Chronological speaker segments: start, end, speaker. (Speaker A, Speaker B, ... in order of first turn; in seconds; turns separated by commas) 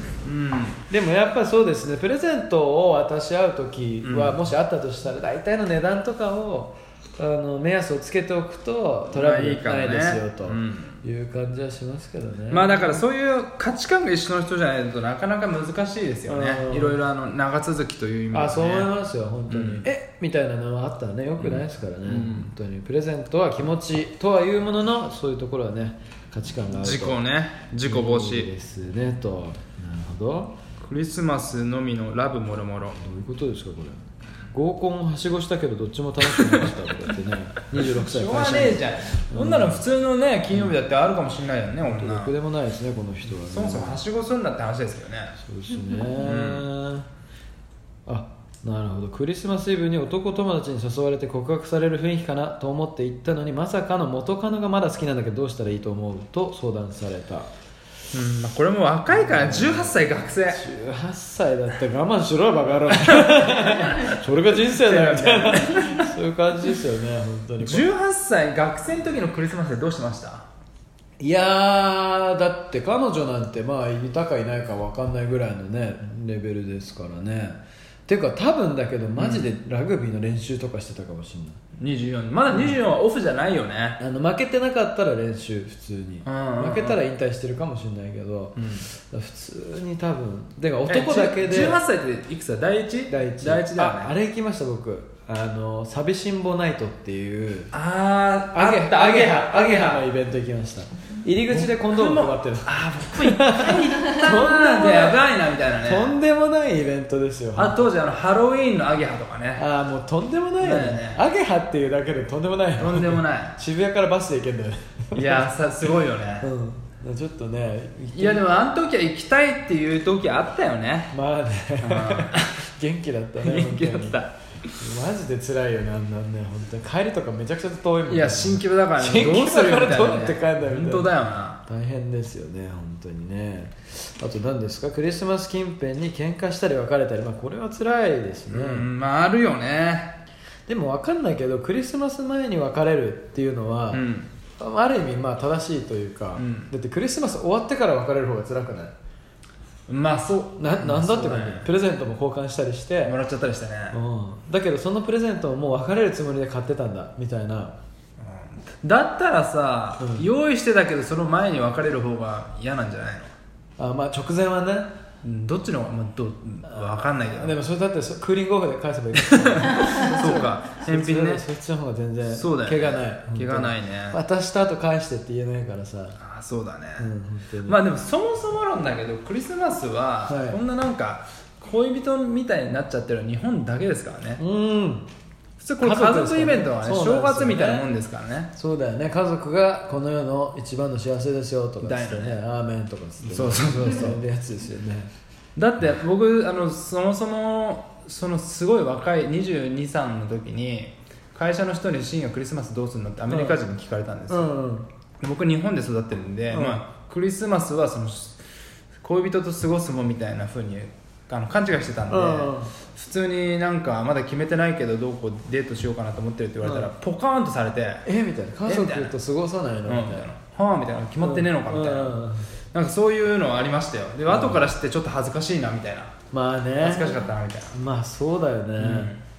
Speaker A: 0.2-0.8, Speaker B: 0.9-13.0, Speaker A: 4.0-4.4, Speaker A: 9.1-11.0, Speaker A: 12.5-18.9, Speaker B: 16.3-17.0, Speaker B: 18.3-27.2, Speaker A: 19.5-19.9, Speaker A: 21.4-22.5, Speaker A: 26.7-28.5, Speaker B: 27.8-30.5, Speaker A: 30.8-33.0, Speaker B: 33.0-39.9, Speaker A: 36.2-36.7, Speaker A: 37.7-42.3, Speaker B: 41.8-44.0, Speaker A: 43.4-45.3, Speaker B: 45.4-47.1, Speaker A: 46.2-46.6, Speaker B: 48.1-57.5, Speaker A: 58.1-60.6, Speaker B: 59.1-67.9, Speaker A: 63.0-66.1, Speaker A: 67.6-70.5, Speaker B: 71.2-81.6, Speaker A: 79.2-79.5, Speaker A: 81.8-84.0, Speaker B: 82.5-82.8, Speaker B: 84.0-91.8, Speaker A: 86.2-87.0, Speaker A: 88.6-88.8, Speaker A: 90.9-94.1, Speaker B: 93.1-97.7, Speaker A: 97.7-100.0, Speaker B: 98.5-105.2, Speaker A: 101.5-106.2, Speaker B: 105.8-107.9, Speaker A: 107.5-109.6, Speaker B: 109.5-115.5, Speaker A: 110.6-111.2, Speaker A: 112.8-113.6, Speaker A: 115.1-116.5, Speaker B: 116.4-118.5, Speaker A: 118.1-121.1, Speaker B: 121.1-124.2, Speaker A: 121.8-122.6, Speaker A: 123.4-124.7, Speaker B: 124.8-138.9, Speaker A: 128.1-131.6, Speaker A: 138.5-140.2, Speaker B: 140.7-144.0, Speaker A: 143.9-144.3, Speaker B: 144.6-148.9, Speaker A: 146.4-146.7, Speaker A: 149.9-151.7, Speaker B: 150.6-153.2, Speaker A: 153.0-154.0, Speaker B: 153.9-157.8, Speaker A: 158.2-163.3, Speaker B: 160.0-160.3, Speaker B: 163.8-164.9, Speaker A: 165.2-167.6, Speaker B: 166.6-176.2, Speaker A: 169.2-171.4, Speaker A: 172.3-174.2, Speaker A: 176.2-177.1, Speaker B: 177.0-177.8, Speaker A: 177.6-184.4, Speaker B: 180.3-180.6, Speaker B: 184.4-185.1, Speaker A: 185.6-188.5, Speaker B: 185.8-187.9, Speaker B: 188.5-195.1, Speaker A: 191.8-192.4, Speaker A: 193.2-194.2, Speaker A: 195.6-204.5, Speaker B: 203.3-203.6, Speaker B: 204.3-204.9, Speaker A: 205.2-208.4, Speaker B: 206.5-206.8, Speaker A: 209.0-218.0, Speaker B: 212.1-212.7, Speaker B: 216.6-216.9, Speaker B: 218.0-220.3, Speaker A: 218.6-219.1, Speaker A: 219.8-222.2, Speaker B: 221.2-222.5, Speaker A: 222.7-226.2, Speaker B: 224.3-224.7, Speaker B: 226.3-229.1, Speaker A: 226.8-227.7, Speaker A: 228.8-229.2